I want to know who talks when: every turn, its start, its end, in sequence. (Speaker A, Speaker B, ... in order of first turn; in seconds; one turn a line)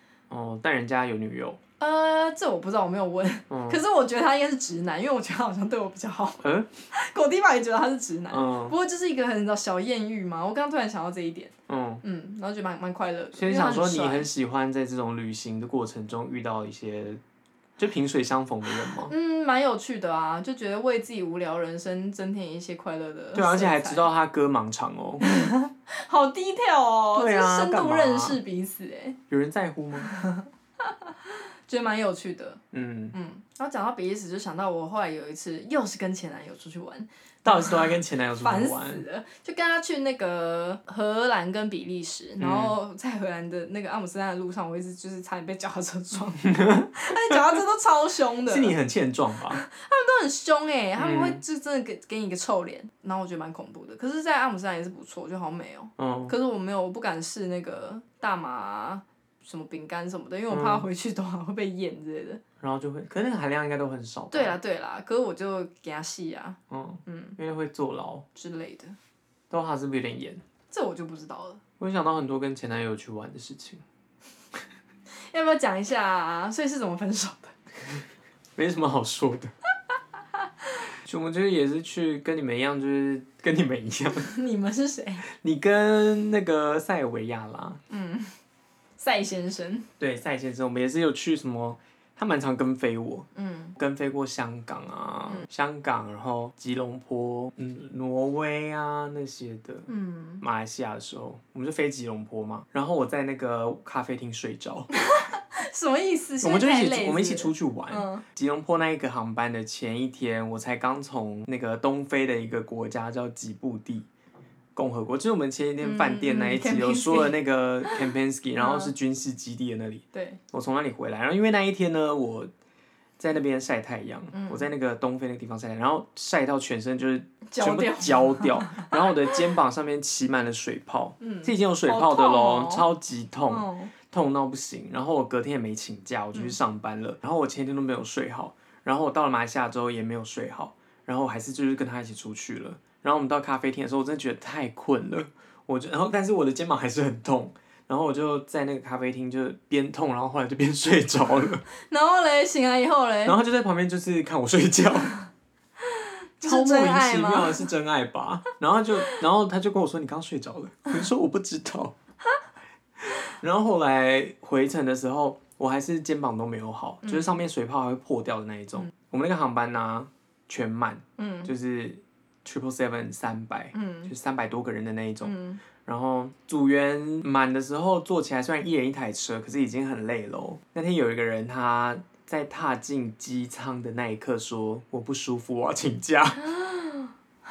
Speaker A: 0.3-1.6
Speaker B: 1.8-14.3
Speaker A: 3.5-3.8
Speaker A: 6.4-6.7
Speaker A: 8.3-8.8
Speaker A: 11.7-12.0
Speaker A: 13.3-17.2
Speaker A: 17.8-19.1
Speaker B: 19.0-24.1
Speaker A: 23.3-25.5
Speaker B: 25.2-29.2
Speaker A: 27.1-28.4
Speaker A: 29.3-30.1
Speaker B: 30.0-32.6
Speaker A: 32.7-33.2
Speaker B: 33.1-48.8
Speaker A: 37.4-39.0
Speaker A: 42.4-42.8
Speaker A: 46.5-47.4
Speaker A: 48.5-49.6
Speaker B: 49.5-62.4
Speaker A: 51.0-51.4
Speaker A: 56.0-56.3
Speaker A: 60.5-60.9
Speaker A: 62.6-64.6
Speaker B: 64.3-67.4
Speaker A: 66.7-68.3
Speaker B: 68.3-69.0
Speaker A: 69.5-70.4
Speaker B: 70.7-71.6
Speaker A: 71.8-73.8
Speaker B: 75.3-77.5
Speaker A: 78.6-79.5
Speaker A: 81.0-84.3
Speaker B: 84.2-85.2
Speaker A: 85.3-87.8
Speaker B: 87.9-88.4
Speaker B: 89.0-89.9
Speaker A: 90.0-99.9
Speaker B: 93.3-93.8
Speaker B: 99.9-100.4
Speaker A: 100.4-104.9
Speaker B: 104.9-108.2
Speaker A: 106.4-114.1
Speaker A: 114.8-122.5
Speaker B: 115.8-118.1
Speaker B: 118.6-118.9
Speaker B: 120.1-120.4
Speaker A: 123.2-151.6
Speaker B: 124.3-124.7
Speaker B: 127.5-129.1
Speaker B: 131.2-132.9
Speaker B: 133.5-133.9
Speaker B: 151.8-153.4
Speaker A: 153.2-155.2
Speaker B: 155.8-157.7
Speaker A: 156.4-161.9
Speaker A: 163.0-186.5
Speaker B: 167.0-167.4
Speaker B: 171.2-171.5
Speaker B: 173.7-174.1
Speaker B: 175.2-175.6
Speaker B: 186.4-187.1